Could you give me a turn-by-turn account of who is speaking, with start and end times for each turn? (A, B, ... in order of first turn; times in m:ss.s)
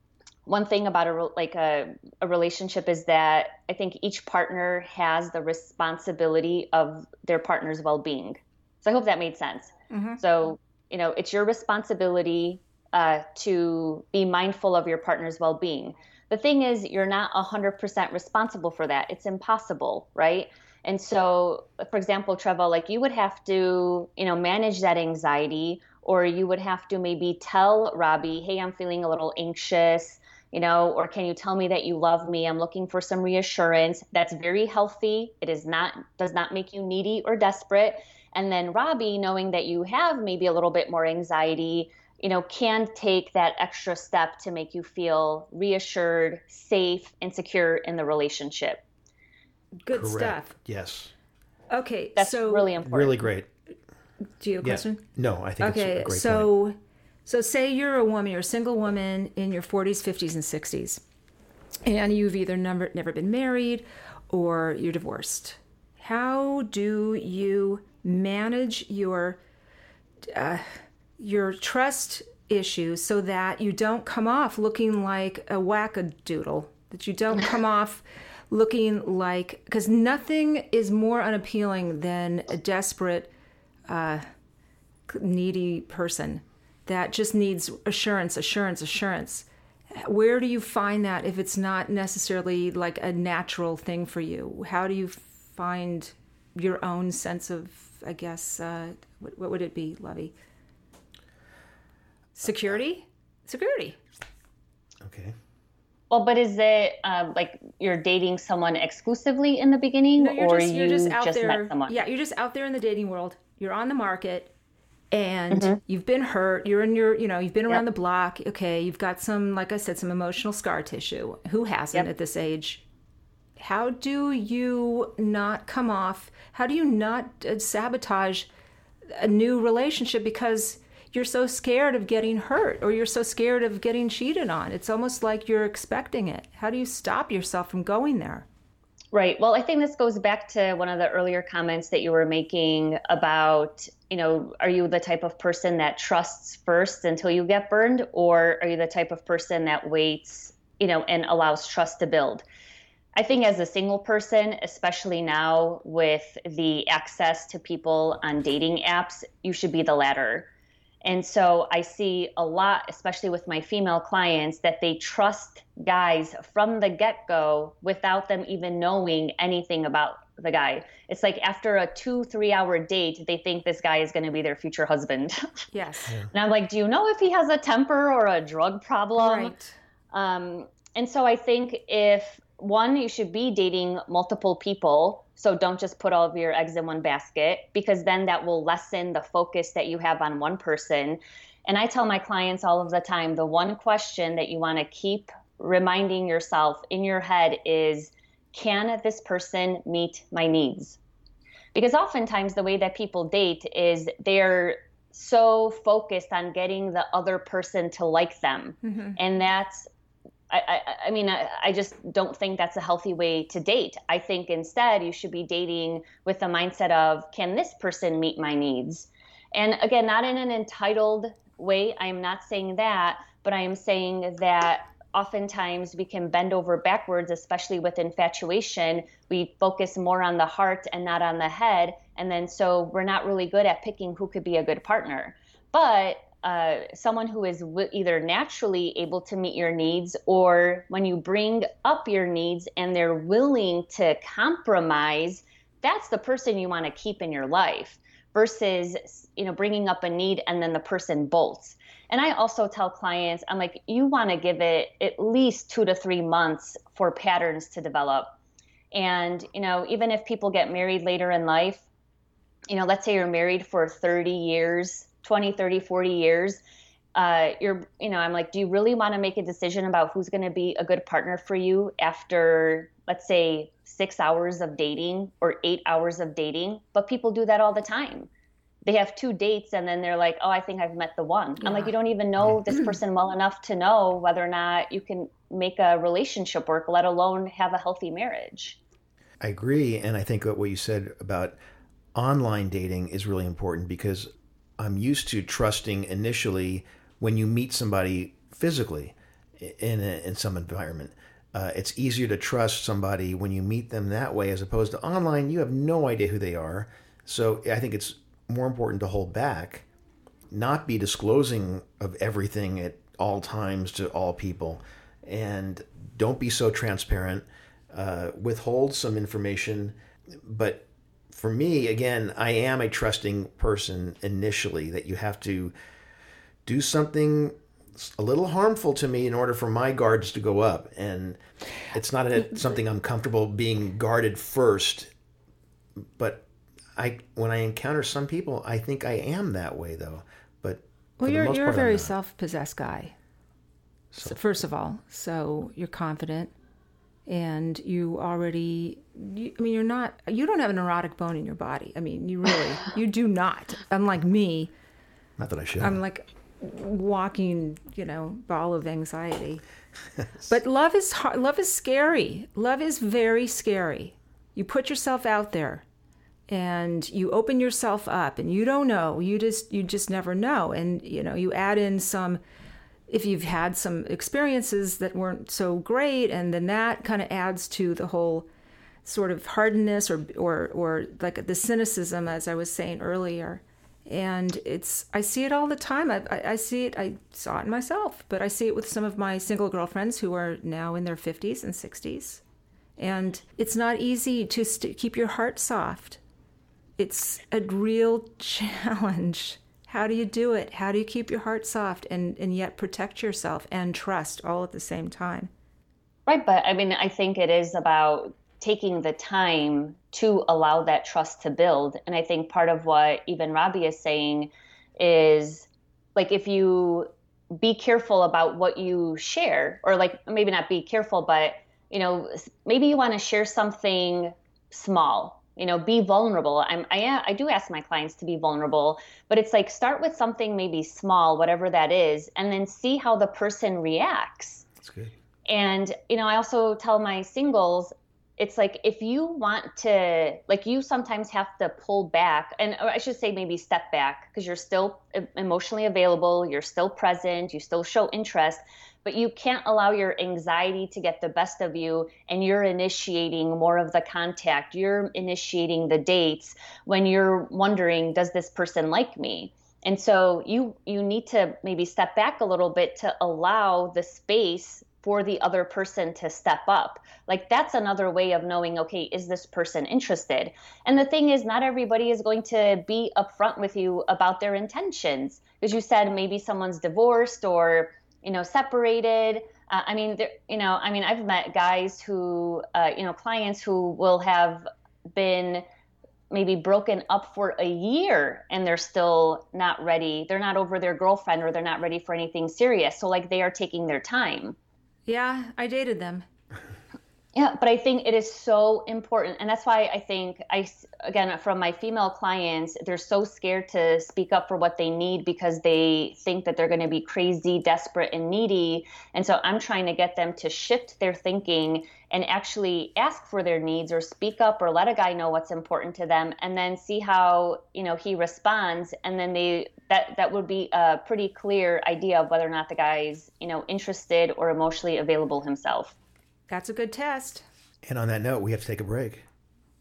0:00.4-0:48.8 A
0:09.9-0:10.2 B
0:49.8-0:50.5 B
0:49.9-0:51.1 C
0:51.7-0:52.7 B
0:52.2-0:53.2 A
0:52.8-0:53.5 C
0:54.4-0:55.0 B
0:54.6-0:56.5 C
0:55.6-0:56.7 B
0:57.2-1:01.0 B
1:01.8-1:09.4 B
1:10.3-1:23.3 B
1:23.9-1:24.2 B
1:25.1-1:40.3 B
1:42.3-1:44.0 B
1:42.4-1:42.8 C
1:45.0-1:45.4 C
1:46.1-1:52.0 A
1:50.2-1:54.5 B
1:55.1-2:02.8 B
1:55.5-1:55.8 A
2:03.6-2:08.5 B
2:09.1-2:18.4 B
2:19.1-2:32.4 A
2:33.2-2:40.5 A
2:41.0-2:55.4 A
2:55.7-2:56.1 B
2:56.3-2:59.5 A
2:59.2-2:59.8 B
3:00.1-3:21.0 A
3:21.7-3:29.9 A
3:28.8-3:29.2 B
3:30.5-4:18.3 A
4:18.9-4:21.8 A
4:22.7-4:26.6 A
4:27.1-4:38.3 A
4:38.8-4:48.8 A
4:41.6-4:41.9 B
4:49.4-4:51.6 C
4:52.1-5:09.8 C
5:10.5-5:25.7 C
5:26.6-5:31.4 C
5:31.9-5:35.1 C
5:36.0-5:42.2 C
5:41.2-5:43.1 B
5:44.1-5:44.5 C
5:44.2-5:46.5 B
5:47.2-5:54.7 B
5:55.4-5:56.0 C
5:55.8-5:59.6 B
6:00.5-6:05.8 B
6:06.5-6:12.4 B
6:13.1-6:18.5 B
6:19.0-6:32.4 B
6:33.0-6:36.2 B
6:37.0-6:45.5 B
6:46.3-7:14.6 A
7:14.8-7:15.1 C
7:15.4-8:05.6 A
8:06.3-8:14.6 A
8:15.1-8:16.2 B
8:17.3-8:46.0 A
8:46.5-8:47.4 B
8:47.8-8:49.2 C